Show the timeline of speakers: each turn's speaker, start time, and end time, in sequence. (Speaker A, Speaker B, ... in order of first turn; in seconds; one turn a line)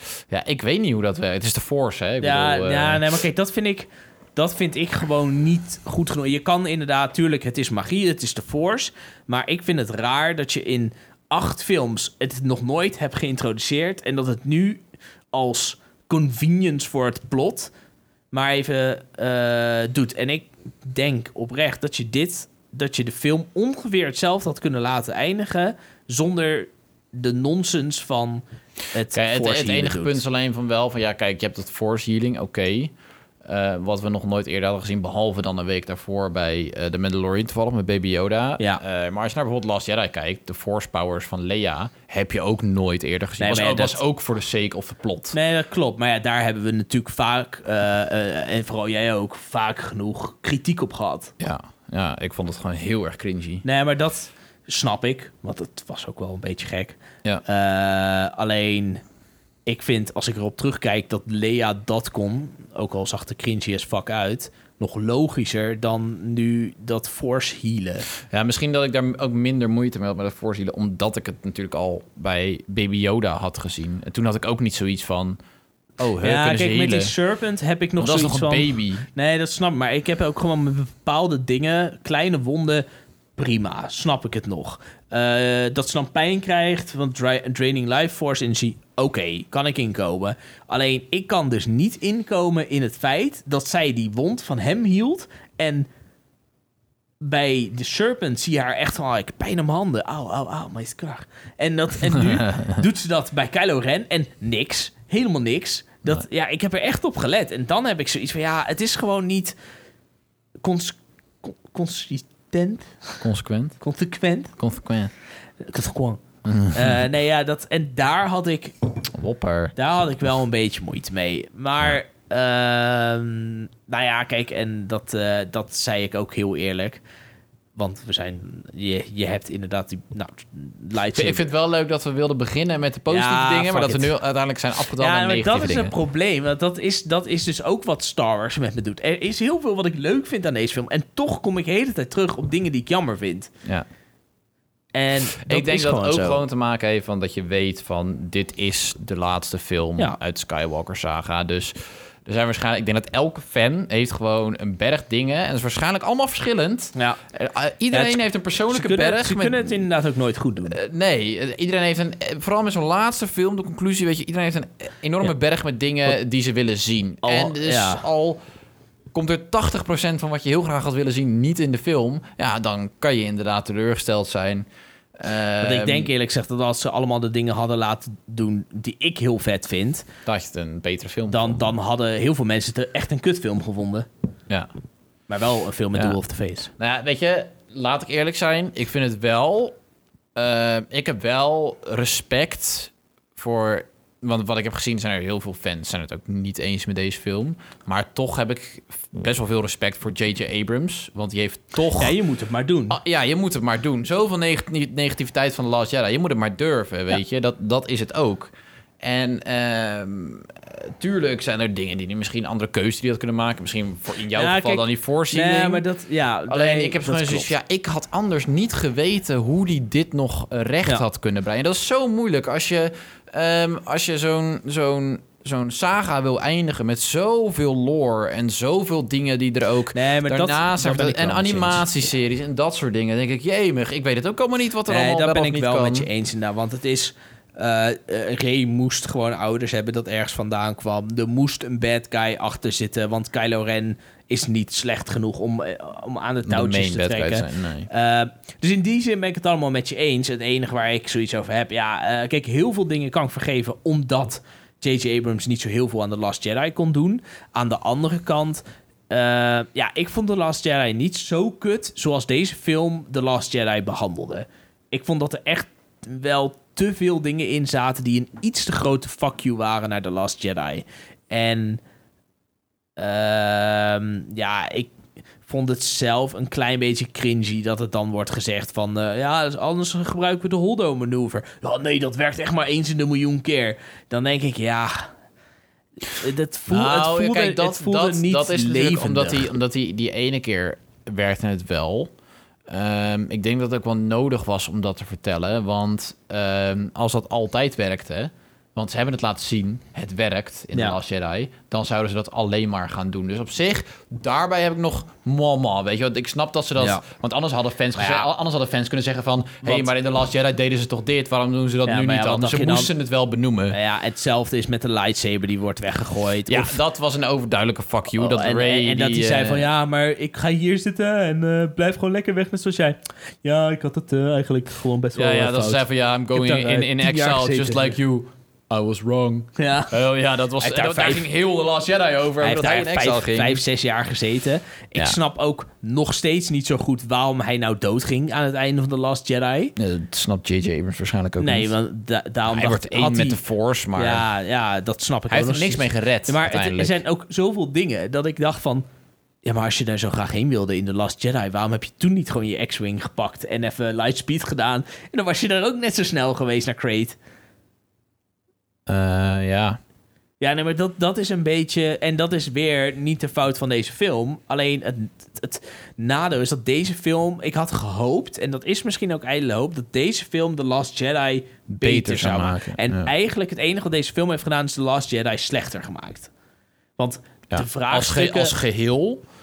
Speaker A: 0.3-3.0
Speaker B: 2.2-17.7
Speaker B: 18.3-30.2
Speaker A: 29.1-32.9
Speaker A: 33.4-45.4
Speaker B: 43.4-44.0
Speaker B: 45.3-51.3
Speaker A: 51.4-53.6
Speaker B: 53.6-59.0
Speaker B: 59.6-68.1
Speaker A: 68.3-75.4
Speaker A: 76.0-77.1
Speaker B: 76.2-82.8
Speaker A: 78.0-79.0
Speaker B: 83.4-95.9
Speaker B: 97.2-109.5
Speaker A: 102.2-102.8
Speaker B: 110.6-113.2
Speaker A: 113.2-113.8
Speaker B: 113.8-114.5
Speaker A: 114.6-115.1
Speaker B: 115.6-118.8
Speaker A: 116.4-117.0
Speaker A: 119.1-119.7
Speaker B: 119.8-127.0
Speaker B: 127.8-131.4
Speaker A: 131.1-135.9
Speaker B: 133.1-134.1
Speaker B: 135.0-143.5
Speaker B: 144.9-146.4
Speaker A: 145.4-151.7
Speaker A: 152.2-159.7
Speaker B: 157.9-160.8
Speaker A: 160.7-168.4
Speaker B: 167.2-168.0
Speaker A: 169.1-176.1
Speaker B: 175.6-180.1
Speaker A: 180.2-181.6
Speaker B: 181.3-184.1
Speaker B: 185.3-186.7
Speaker A: 186.8-189.7
Speaker A: 190.3-202.1
Speaker B: 201.9-203.0
Speaker A: 202.9-215.8
Speaker B: 214.3-217.5
Speaker A: 216.5-236.1
Speaker B: 229.9-231.8
Speaker B: 234.9-271.8
Speaker A: 246.4-247.9
Speaker B: 273.0-274.9
Speaker B: 275.4-285.1
Speaker B: 286.0-289.5
Speaker A: 286.7-292.1
Speaker A: 292.7-313.8
Speaker B: 306.8-307.0
Speaker B: 308.0-308.3
Speaker B: 309.6-309.9
Speaker B: 311.9-312.9
Speaker B: 313.7-316.7
Speaker A: 316.5-319.7
Speaker B: 318.1-327.9
Speaker A: 325.1-333.6
Speaker B: 329.6-329.9
Speaker B: 330.6-331.2
Speaker B: 332.4-339.7
Speaker A: 339.8-341.7
Speaker B: 341.4-343.4
Speaker A: 342.5-344.2
Speaker B: 343.9-348.9
Speaker A: 345.3-347.0
Speaker B: 349.4-357.2
Speaker A: 358.9-359.8
Speaker B: 360.4-376.3
Speaker A: 371.7-373.1
Speaker B: 377.0-378.6
Speaker A: 377.5-379.2